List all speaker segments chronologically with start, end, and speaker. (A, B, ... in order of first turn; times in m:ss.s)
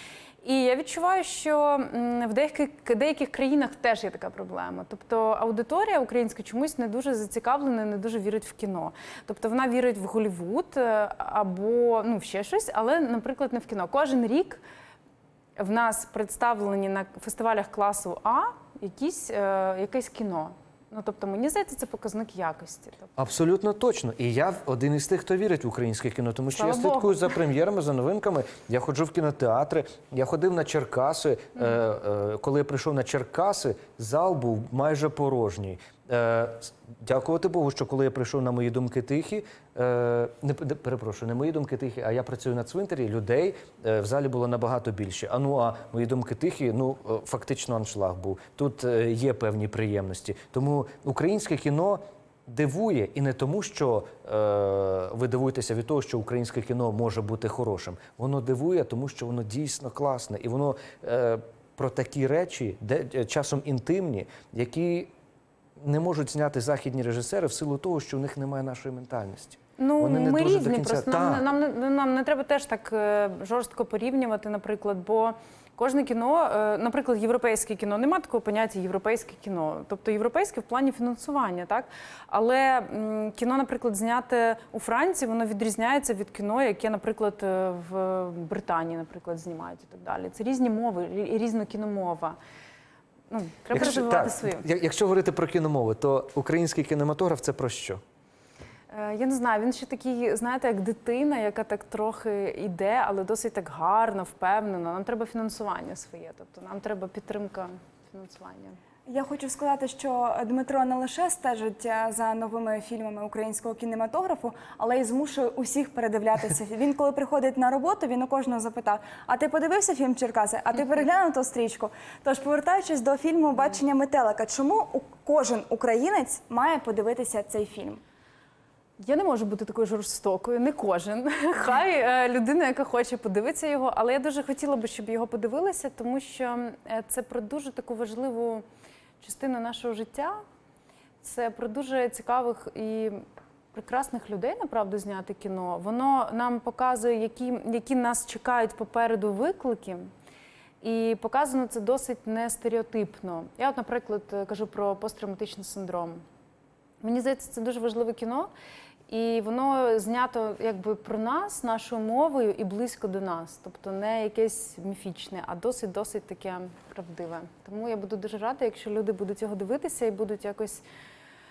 0:00.4-0:14.6 A
0:15.6-0:23.2 A
0:23.2-1:05.1 B
0:26.6-0:27.4 A
1:05.8-1:11.4 B
1:09.8-1:32.4 A
1:33.3-1:34.7 A
1:33.7-1:38.0 B
1:38.9-1:48.8 A
1:49.1-2:08.0 C
2:09.0-2:18.6 A
2:19.2-2:20.4 A
2:21.2-2:30.1 A
2:30.8-2:36.2 A
2:37.0-2:38.5 A
2:39.1-2:50.8 A